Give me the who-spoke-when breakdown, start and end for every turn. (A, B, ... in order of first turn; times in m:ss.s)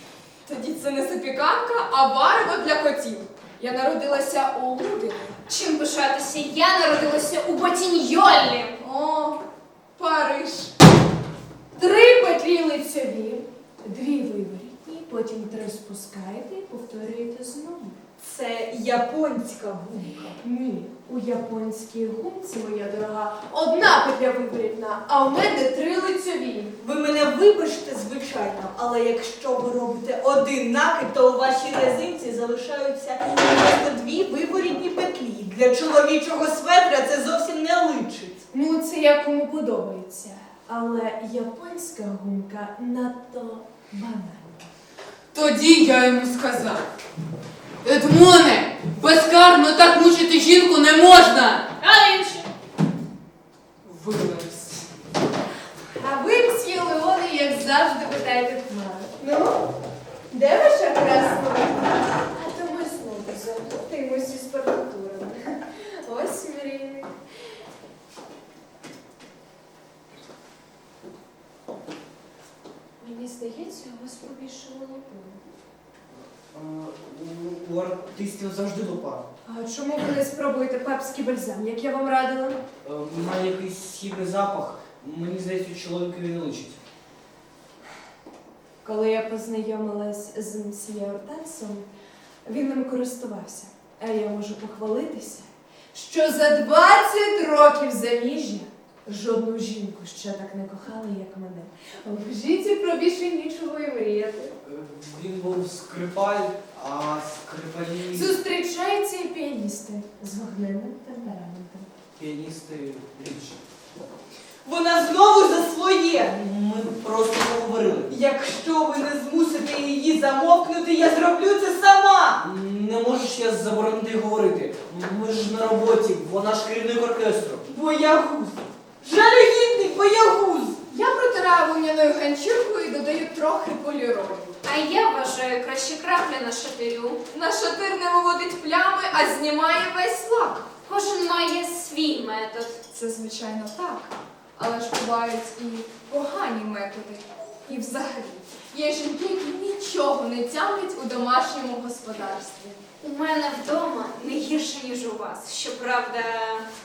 0:00.4-0:05.4 A
0:05.5-0:08.8 B
0:08.8-0:09.4 A
0:10.0-0:10.7 A
0:11.8-0:18.0 C
0:18.2-0:20.3 D
0:20.4-0:26.7 C
0:26.8-0:38.4 D
0:38.5-0:44.6 C
0:45.3-0:46.8 E
0:47.8-0:51.6 E
0:51.8-0:52.5 B
0:53.8-0:54.8 E
0:55.9-0:59.6 C
1:00.3-1:07.1 C
1:13.0-1:15.4 C
1:16.5-1:19.2 F
1:19.4-1:22.6 C
1:22.8-1:26.8 F
1:28.8-1:31.9 C
1:32.4-1:44.5 C
1:44.6-1:48.4 F
1:48.1-1:51.9 C
1:52.2-1:53.6 F
1:54.6-1:56.3 D
1:56.2-1:58.1 F
1:58.1-2:02.4 D
2:02.4-2:07.6 F
2:07.6-2:10.8 D
2:10.9-2:14.6 A
2:14.6-2:17.2 B
2:17.3-2:20.7 A
2:20.8-2:22.8 B
2:22.9-2:32.8 A
2:33.0-2:36.7 B